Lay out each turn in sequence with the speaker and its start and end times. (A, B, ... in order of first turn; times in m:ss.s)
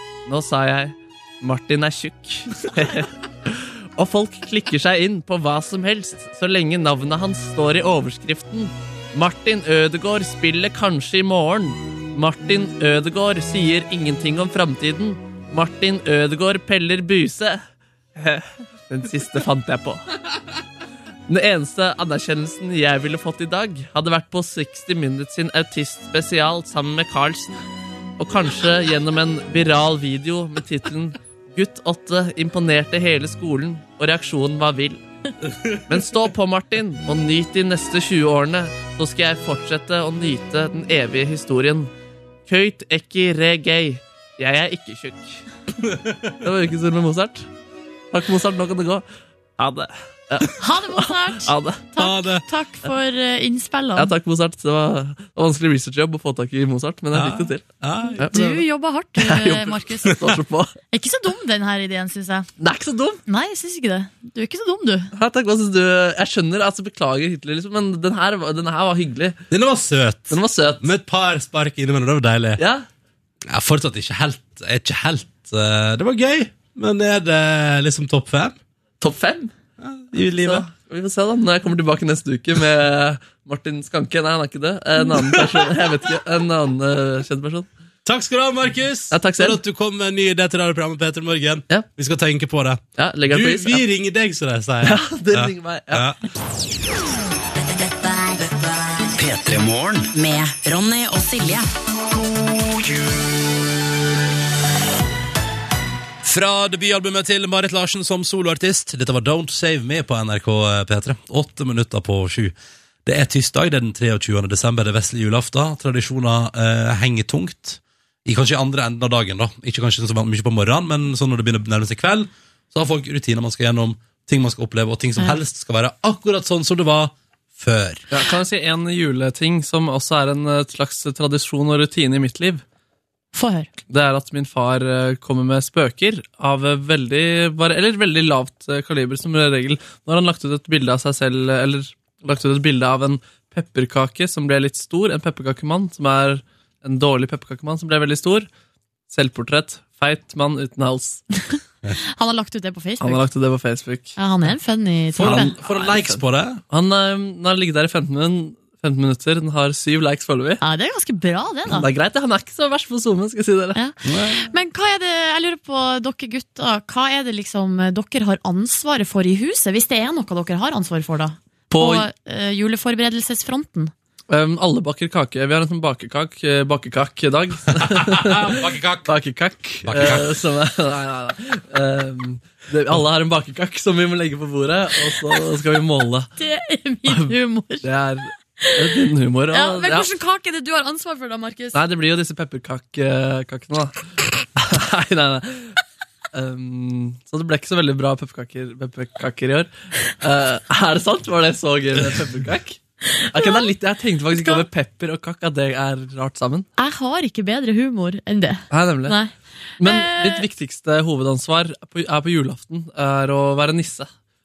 0:00.3-0:17.6 A
0:18.2-0:20.0 A
0:21.3-0:27.6 A
0:28.2-0:35.0 A
0:35.5-0:35.8 B
0:35.9-0:41.9 A
0:42.5-0:45.4 A
0:45.8-0:46.3 B
0:46.4-0:47.5 A
0:48.1-0:49.0 A
0:49.6-0:51.8 A
0:50.6-0:54.1 C
0:52.0-0:52.4 B
0:54.0-0:57.7 A
0:57.1-0:58.5 B
0:58.2-0:58.6 A
0:58.3-1:00.2 C
0:59.2-1:00.7 A
1:00.9-1:02.5 C
1:02.6-1:03.2 A
1:03.3-1:05.1 C
1:05.1-1:09.4 A
1:09.5-1:12.6 B
1:10.3-1:10.9 A
1:12.6-1:12.8 A
1:13.5-1:18.6 B
1:19.0-1:19.5 A
1:19.8-1:20.7 B
1:20.1-1:27.7 A
1:25.1-1:25.7 B
1:28.0-1:36.2 B
1:29.1-1:29.6 A
1:33.0-1:33.8 A
1:34.8-1:36.1 A
1:37.6-1:39.2 D
1:39.2-1:40.1 E
1:40.1-1:41.7 D
1:42.1-1:43.1 E
1:46.2-2:08.1 B
2:08.1-2:12.6 A
2:13.3-2:13.7 C
2:13.9-2:28.5 A
2:29.1-2:31.2 A
2:31.5-2:33.2 C
2:33.0-2:34.2 A
2:34.2-2:35.5 C
2:35.2-2:36.6 B
2:35.2-2:40.6 A
2:40.6-2:41.9 C
2:41.7-2:43.8 A
2:43.8-2:53.9 C
2:44.0-2:44.5 B
2:51.7-2:52.1 A
2:54.3-3:06.3 A
2:57.8-2:59.1 B
2:59.8-3:00.4 B
3:06.4-3:07.9 C
3:07.8-3:10.1 A
3:09.5-3:11.8 C
3:11.7-3:15.8 A
3:16.3-3:22.8 A
3:23.2-3:23.7 C
3:23.3-3:26.7 A
3:26.8-3:30.4 C
3:28.7-3:29.2 A
3:29.8-3:34.1 A